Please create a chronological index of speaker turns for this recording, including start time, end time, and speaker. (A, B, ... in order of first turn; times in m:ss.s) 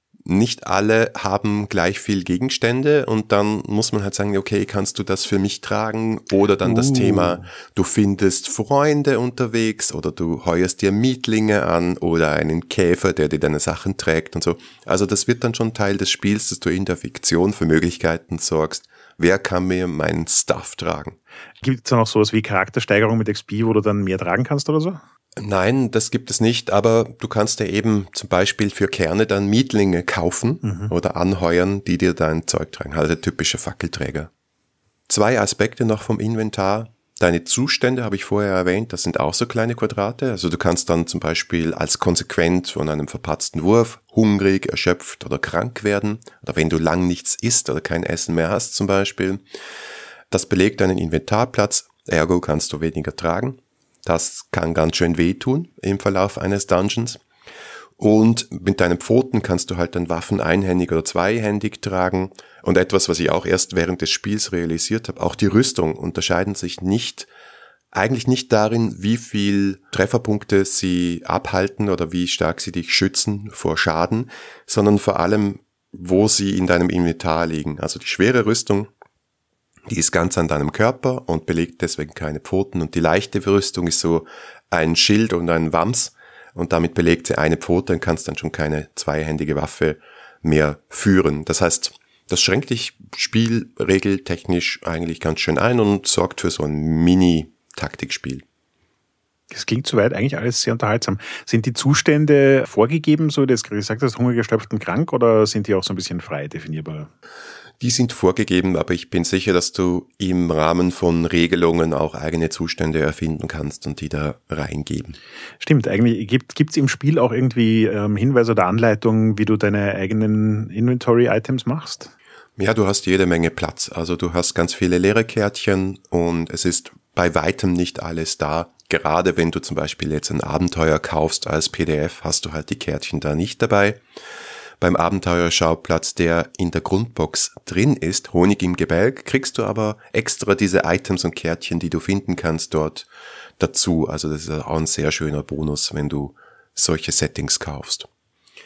0:00.2-0:21.2 A
0:06.6-0:07.5 B
0:21.6-0:25.0 B
0:25.4-0:34.3 A
0:30.6-0:30.9 B
0:35.1-0:49.4 A
0:50.3-0:57.2 A
0:58.0-1:07.3 A
1:07.9-1:18.9 A
1:19.9-1:38.4 A
1:39.5-1:47.1 B
1:47.8-1:55.2 A
1:55.6-2:02.1 B
2:02.6-2:14.0 A
2:14.8-2:23.1 A
2:23.6-2:28.1 A